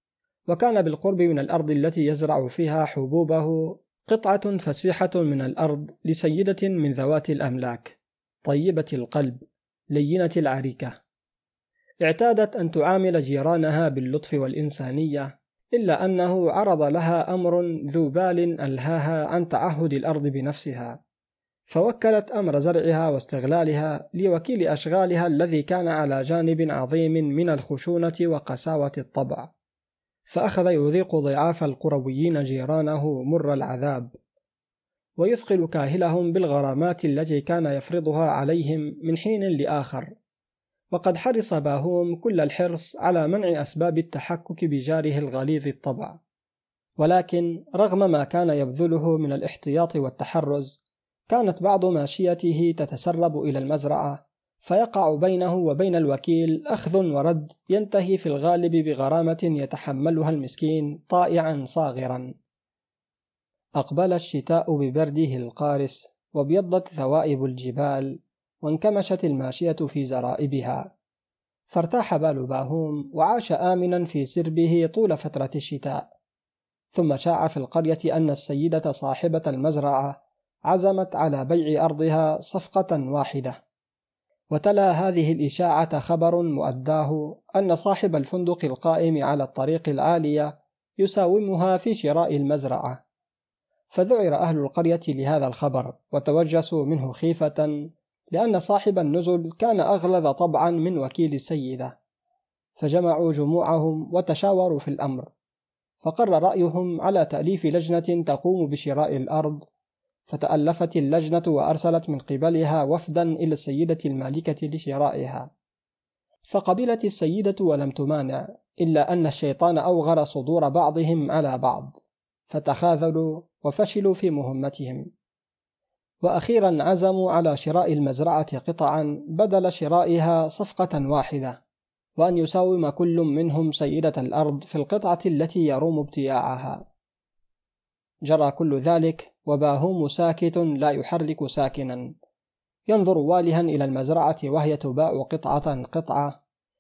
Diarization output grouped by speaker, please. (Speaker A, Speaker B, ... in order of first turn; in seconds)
Speaker A: 0.5-9.4, 9.9-11.0, 12.0-21.0, 21.7-29.5, 30.3-34.1, 35.2-40.1, 40.9-46.2, 47.0-62.3, 63.8-70.9, 71.7-76.0, 76.9-83.6, 84.5-93.0, 93.9-97.7, 98.3-102.0, 102.8-105.3, 106.0-109.7, 110.3-115.5, 116.5-122.0, 122.5-125.1, 126.2-131.6, 132.2-136.8, 138.2-142.1, 142.9-146.4